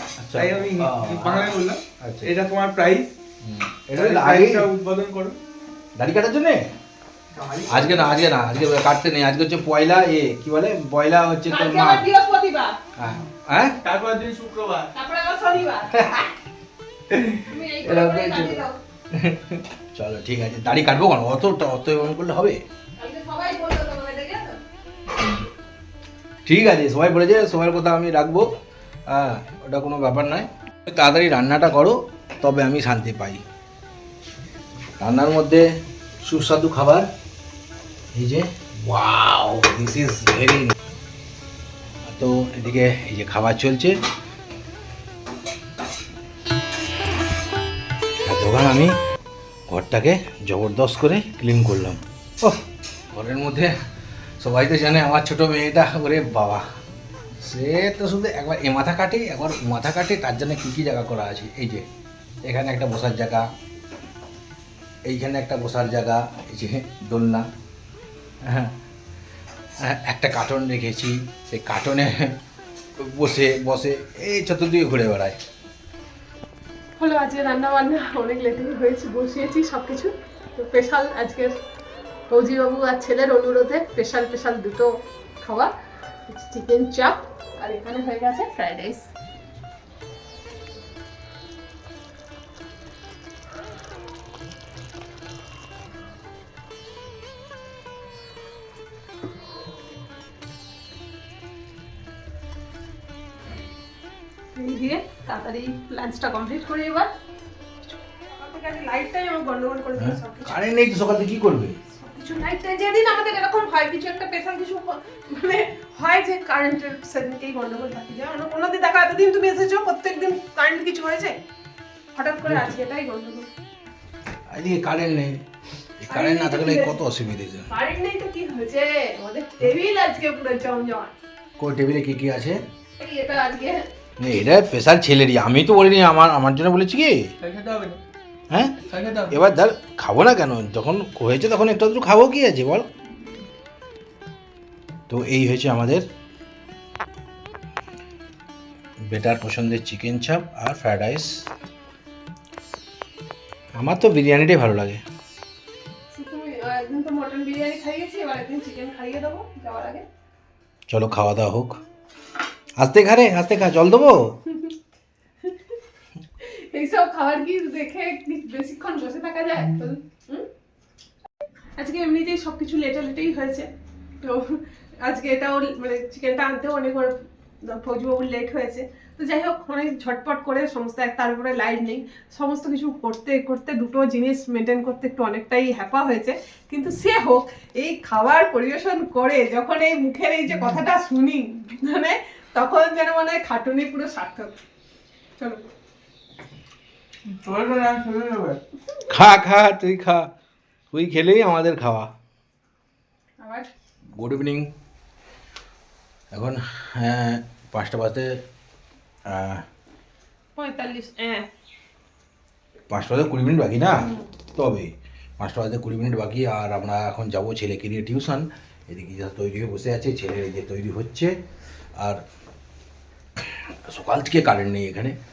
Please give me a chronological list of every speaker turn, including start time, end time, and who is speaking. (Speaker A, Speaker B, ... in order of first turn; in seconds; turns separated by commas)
Speaker A: 0.2-2.3, Speaker B: 0.3-3.1, Speaker A: 3.4-4.7, Speaker B: 3.9-5.4, Speaker A: 6.0-6.6, Speaker B: 7.3-8.2, Speaker A: 7.7-12.1, Speaker C: 11.5-12.8, Speaker A: 13.0-13.8, Speaker B: 13.8-14.9, Speaker C: 14.9-16.1, Speaker A: 15.9-16.3, Speaker A: 17.1-22.6, Speaker C: 17.5-18.8, Speaker C: 23.0-24.6, Speaker A: 25.1-25.5, Speaker A: 26.4-28.5, Speaker A: 29.1-33.4, Speaker A: 35.0-35.6, Speaker A: 36.2-37.1, Speaker A: 38.1-40.7, Speaker A: 42.0-44.0, Speaker A: 48.2-48.9, Speaker A: 49.7-53.7, Speaker A: 54.4-56.6, Speaker A: 57.4-61.9, Speaker A: 62.4-63.5, Speaker A: 65.0-67.5, Speaker A: 68.4-68.7, Speaker A: 69.8-72.4, Speaker A: 73.0-75.4, Speaker C: 77.0-81.5, Speaker C: 82.3-85.7, Speaker C: 86.3-89.1, Speaker C: 104.5-107.1, Speaker C: 108.0-110.6, Speaker A: 110.0-111.8, Speaker C: 111.9-121.4, Speaker C: 122.1-123.5, Speaker A: 122.4-122.7, Speaker A: 124.5-125.4, Speaker A: 126.0-127.7, Speaker C: 126.1-127.0, Speaker C: 127.7-131.1, Speaker A: 131.6-132.6, Speaker C: 133.0-133.9, Speaker A: 134.2-137.2, Speaker B: 137.4-138.0, Speaker A: 138.5-142.9, Speaker B: 138.9-139.3, Speaker A: 145.1-146.1, Speaker A: 149.1-151.4, Speaker A: 153.8-155.0, Speaker C: 156.1-160.0, Speaker A: 160.9-161.8, Speaker A: 162.8-164.2, Speaker C: 164.5-164.8, Speaker C: 165.4-165.7, Speaker C: 166.4-170.5, Speaker C: 171.8-173.7, Speaker C: 174.2-194.6, Speaker C: 195.4-195.7, Speaker B: 197.3-198.6, Speaker A: 199.1-200.3, Speaker A: 200.9-202.1, Speaker C: 203.4-203.7, Speaker A: 204.2-204.7, Speaker A: 206.3-208.4, Speaker A: 209.3-209.6, Speaker C: 210.6-211.5, Speaker A: 212.9-221.3, Speaker C: 213.9-214.3, Speaker A: 222.0-222.2, Speaker A: 223.3-225.2